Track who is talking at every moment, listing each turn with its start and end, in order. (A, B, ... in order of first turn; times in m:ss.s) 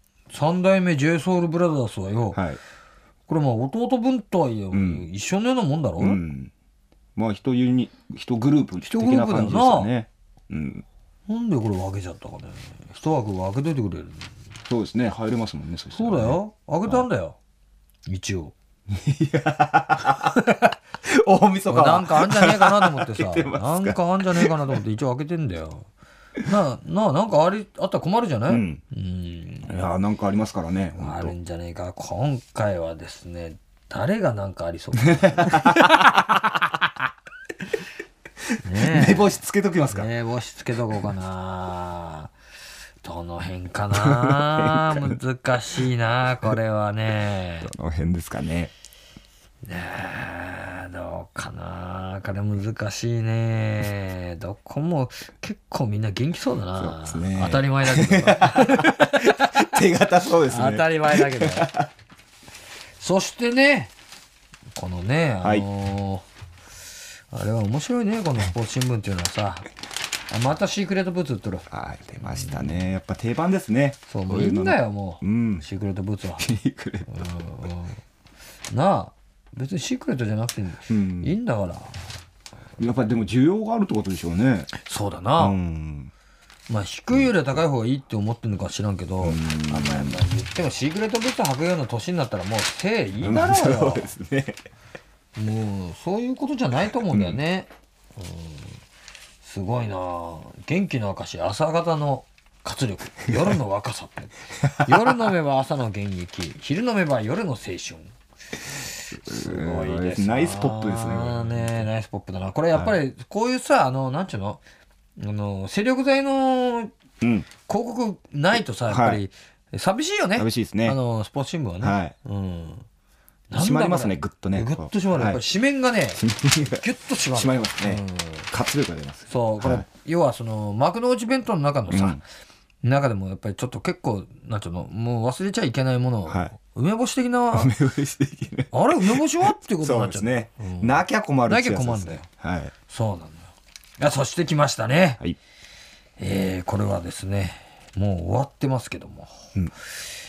0:00.3-0:02.4 A
0:02.3-0:02.6 B
0:03.3-0:06.2 A
0:04.7-0:05.1 B
0:06.0-0:06.5 B
0:07.2-0:10.8 B
0:08.8-0:09.9 A
0:11.3-0:14.3 A
0:14.7-0:17.1 B
0:15.9-0:17.4 A
0:18.1-0:18.5 A
0:18.9-0:24.8 B
0:21.7-0:25.9 A
0:26.4-0:29.9 A
0:28.5-0:28.8 B
0:29.6-0:31.3 B
0:31.0-0:36.6 A
0:35.0-0:36.1 B
0:38.6-0:39.4 A
0:38.7-0:40.1 B
0:39.9-0:42.3 A
0:43.0-0:47.7 A
0:43.9-0:45.2 B
0:47.6-0:48.7 B
0:49.6-0:59.6 A
0:56.8-1:01.9 B
1:00.4-1:01.7 A
1:03.0-1:03.9 A
1:04.7-1:06.3 A
1:07.3-1:09.7 A
1:10.3-1:11.7 A
1:11.7-1:15.7 B
1:12.2-1:12.8 A
1:14.1-1:16.5 A
1:16.4-1:17.3 B
1:17.1-1:18.0 A
1:18.7-1:22.0 A
1:20.9-1:21.4 B
1:22.8-1:24.7 B
1:24.8-1:25.6 A
1:25.4-1:26.1 B
1:26.7-1:34.1 A
1:27.1-1:27.4 B
1:29.2-1:30.2 B
1:33.2-1:34.6 B
1:35.4-1:38.8 A
1:37.1-1:37.4 B
1:39.4-1:48.1 A
1:43.3-1:43.6 B
1:44.6-1:45.3 B
1:49.1-1:54.6 A
1:49.1-1:51.9 B
1:55.2-1:56.9 A
1:57.2-1:57.5 B
1:57.6-2:02.8 A
1:58.9-1:59.2 B
2:00.4-2:01.0 B
2:01.8-2:02.1 B
2:03.5-2:08.5 A
2:03.6-2:05.4 B
2:06.2-2:09.9 B
2:09.3-2:12.2 A
2:11.9-2:12.2 B
2:12.8-2:17.7 A
2:16.3-2:16.5 B
2:17.5-2:22.7 B
2:18.7-2:22.3 A
2:22.9-2:25.2 A
2:26.2-2:29.4 A